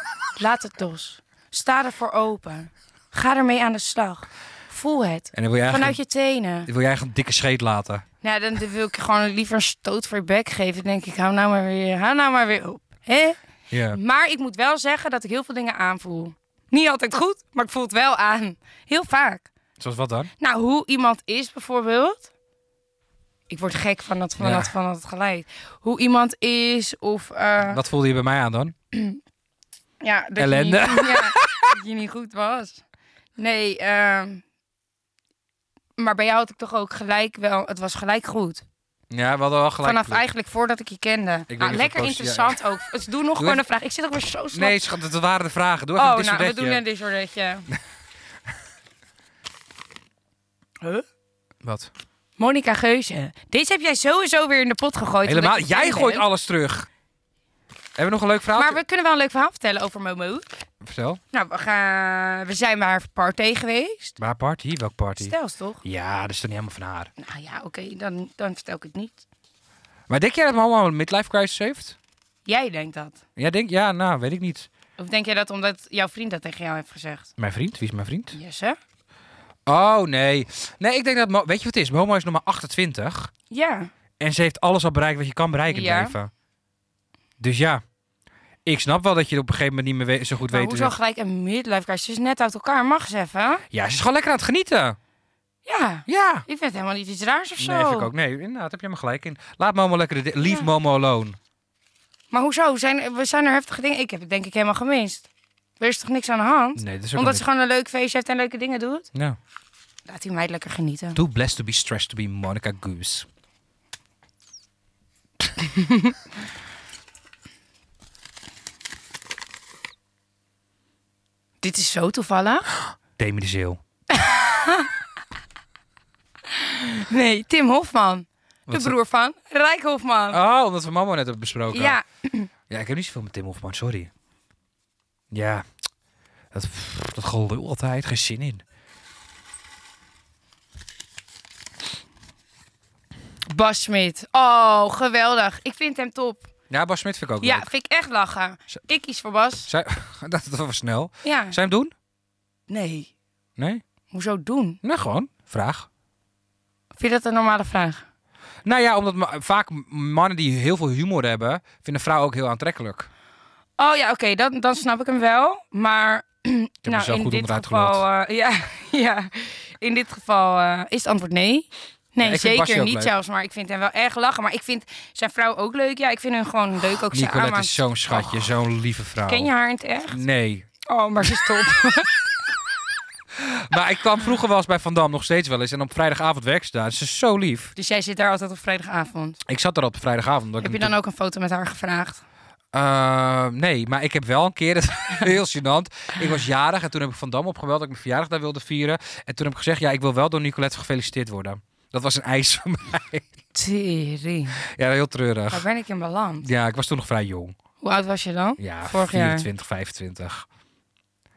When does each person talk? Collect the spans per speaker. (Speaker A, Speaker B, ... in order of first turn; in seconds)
Speaker A: 0.3-6.7, 8.2-13.4, 13.9-19.5, 20.4-22.3, 23.5-27.8, 28.9-29.2, 30.0-32.8, 33.4-34.4, 36.0-38.6, 39.8-44.8, 46.0-47.7, 52.4-56.2, 58.5-60.5, 61.3-64.2, 65.2-65.8, 67.2-69.2, 72.5-73.2, 75.0-77.3, 78.3-78.8, 83.5-83.9, 85.7-86.1, 90.5-93.6, 95.7-98.1, 102.3-105.3, 105.8-109.1, 110.1-111.2, 115.6-116.2, 121.6-122.7, 124.1-124.9, 126.5-130.4, 131.7-132.5, 143.5-146.5, 147.4-149.7, 151.2-151.6, 152.7-153.1, 154.1-154.8, 156.9-158.1, 163.8-178.4, 179.3-180.2, 180.8-182.3, 187.8-189.4, 190.6-192.2, 203.5-204.6, 205.5-206.5, 207.8-209.5
Speaker B: 5.3-6.0, 6.7-8.0, 13.7-14.0, 19.8-20.3, 24.4-24.7, 27.6-28.7, 30.4-31.7, 39.1-40.2, 41.5-42.6, 43.4-43.6, 44.5-46.8, 51.6-51.9, 55.2-56.9, 58.0-58.8, 60.8-61.2, 64.2-67.1, 70.1-72.0, 73.4-74.7, 77.4-78.3, 79.7-83.3, 84.2-86.3, 87.4-87.8, 88.6-90.9, 93.7-95.0, 96.1-96.4, 97.6-101.4, 106.8-107.4, 111.2-113.3, 123.2-123.8, 128.7-128.9, 130.3-131.9, 132.7-134.1, 135.3-135.6, 136.5-138.6, 146.7-147.7, 149.7-151.9, 153.6-153.8, 154.8-155.9, 158.6-163.1, 166.8-168.0, 172.2-173.1, 177.1-179.5, 180.1-180.7, 183.3-187.7, 189.4-190.9, 192.7-203.2, 204.6-205.6, 206.4-207.6, 208.6-210.4